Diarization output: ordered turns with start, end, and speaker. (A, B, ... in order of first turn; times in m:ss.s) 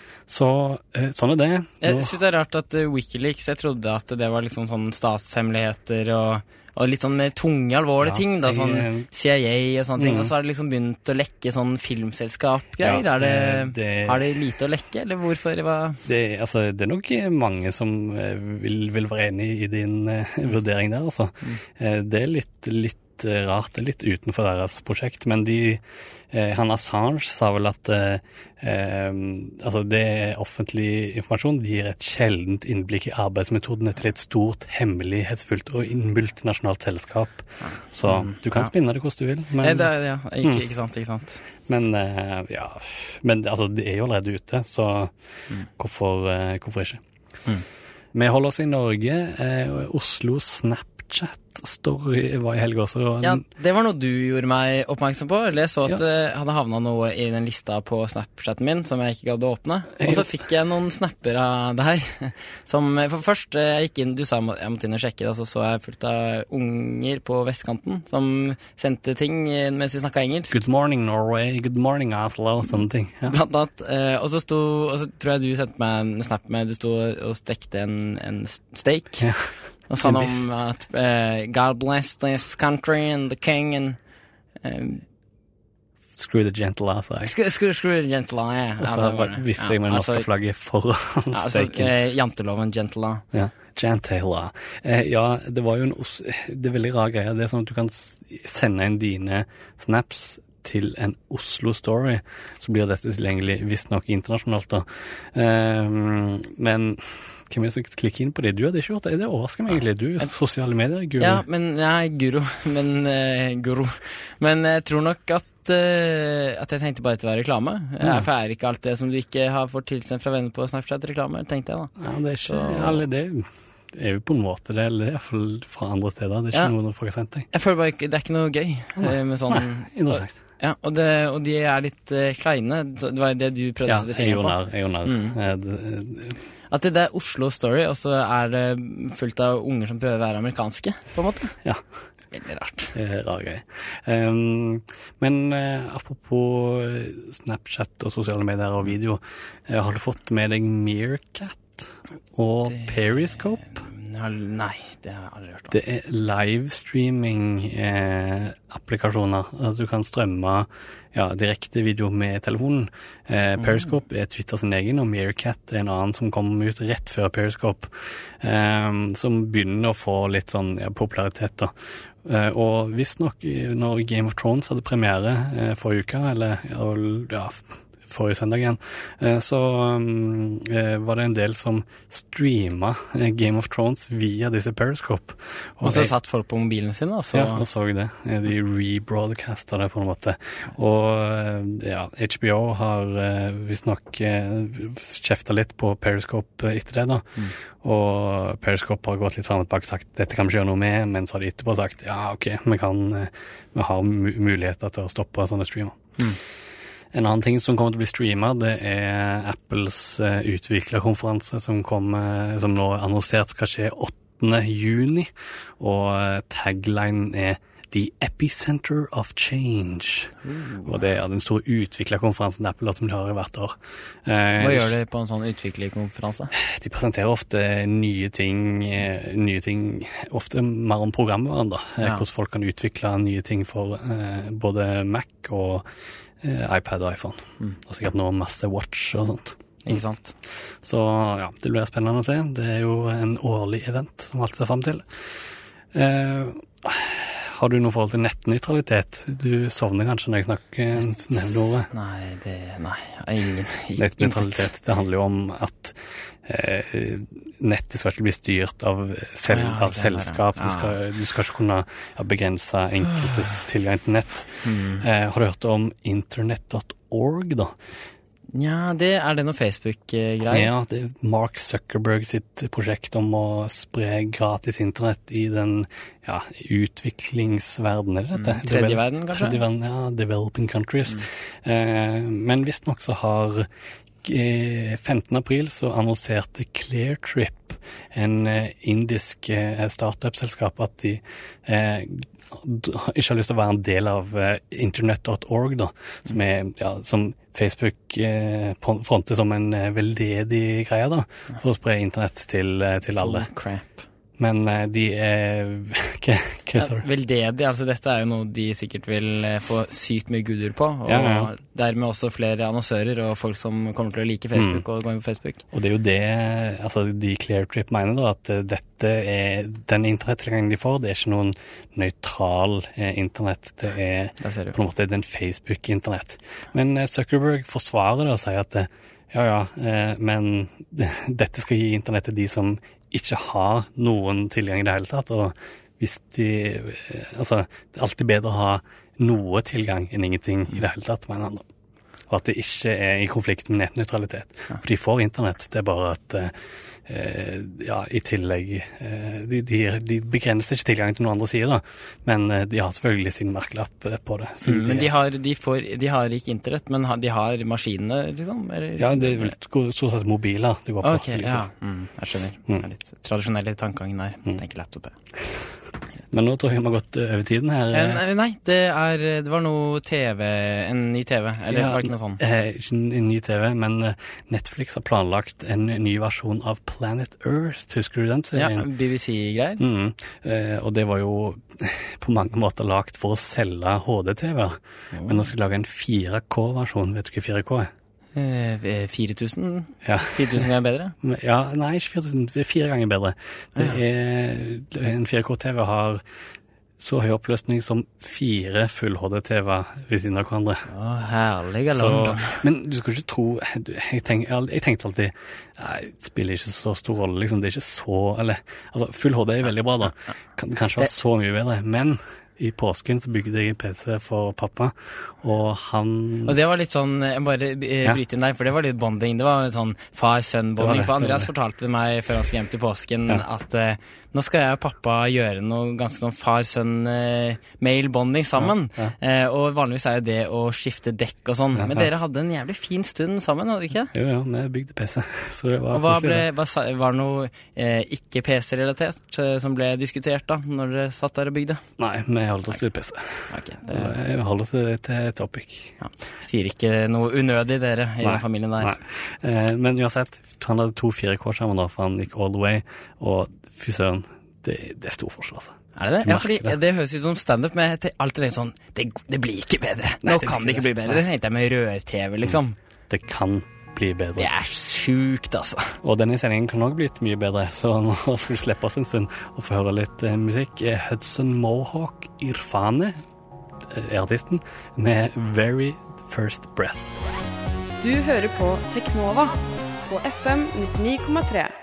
0:00.3-0:02.1 A
0:01.8-0:16.0 B
0:08.0-0:09.1 A
0:10.0-0:10.3 A
0:12.8-0:14.2 A
0:16.0-0:39.9 A
0:37.6-0:38.7 B
0:39.6-0:41.4 B
0:41.7-0:45.1 A
0:45.7-0:47.0 A
0:48.1-0:53.4 A
0:53.2-1:10.6 B
1:00.0-1:00.3 A
1:10.5-1:13.4 A
1:13.3-1:19.3 B
1:19.2-1:20.3 A
1:19.9-1:24.0 B
1:24.6-1:25.0 B
1:26.2-1:27.3 A
1:27.2-1:30.3 B
1:28.8-1:31.9 A
1:31.3-1:33.2 B
1:33.3-1:51.4 A
1:51.2-2:01.9 B
2:02.0-2:07.5 A
2:02.4-2:03.0 B
2:07.5-2:15.4 B
2:09.0-2:10.4 A
2:13.9-2:16.4 A
2:16.7-2:21.6 B
2:22.3-2:23.0 B
2:22.9-2:33.8 A
2:32.7-2:35.8 B
2:35.7-3:06.1 A
3:05.8-3:07.6 B
3:07.3-3:26.0 A
3:27.1-3:40.3 A
3:40.4-3:41.0 B
3:40.8-3:45.0 A
3:44.6-3:46.5 B
3:46.5-3:55.8 A
3:56.4-4:00.0 A
3:59.9-4:00.3 B
4:00.8-4:05.2 A
4:05.9-4:11.9 A
4:11.9-4:14.7 B
4:14.0-4:27.8 A
4:19.4-4:21.0 B
4:24.6-4:25.0 B
4:28.5-4:30.7 B
4:30.5-4:43.7 A
4:38.4-4:39.6 B
4:44.2-5:03.5 A
5:03.2-5:04.0 B
5:04.4-5:07.1 A
5:06.8-5:15.6 B
5:11.1-5:11.5 A
5:14.6-5:14.8 A
5:15.7-5:41.6 A
5:24.4-5:24.8 B
5:42.3-5:46.5 A
5:47.1-5:55.1 A
5:54.6-5:59.6 B
5:59.0-6:01.7 A
6:01.0-6:05.2 B
6:06.3-6:08.2 A
6:07.9-6:12.4 B
6:11.7-6:18.9 A
6:18.6-6:19.8 B
6:19.8-6:27.9 A
6:25.1-6:25.5 B
6:28.4-6:31.1 B
6:30.0-6:30.7 A
6:31.2-6:36.2 A
6:37.0-6:40.9 A
6:40.9-6:42.6 B
6:41.9-6:56.6 A
6:56.4-7:14.1 B
7:00.8-7:01.5 A
7:08.6-7:09.1 A
7:11.8-7:12.1 A
7:14.1-7:16.5 A
7:15.9-7:21.8 B
7:22.0-7:25.9 A
7:23.5-7:24.2 B
7:26.0-7:28.9 B
7:28.2-7:36.8 A
7:36.0-7:42.8 B
7:40.2-7:41.2 A
7:43.1-7:44.5 A
7:44.4-7:46.0 B
7:46.0-7:53.2 A
7:53.9-7:57.2 A
7:58.0-7:59.5 C
8:00.1-8:01.7 C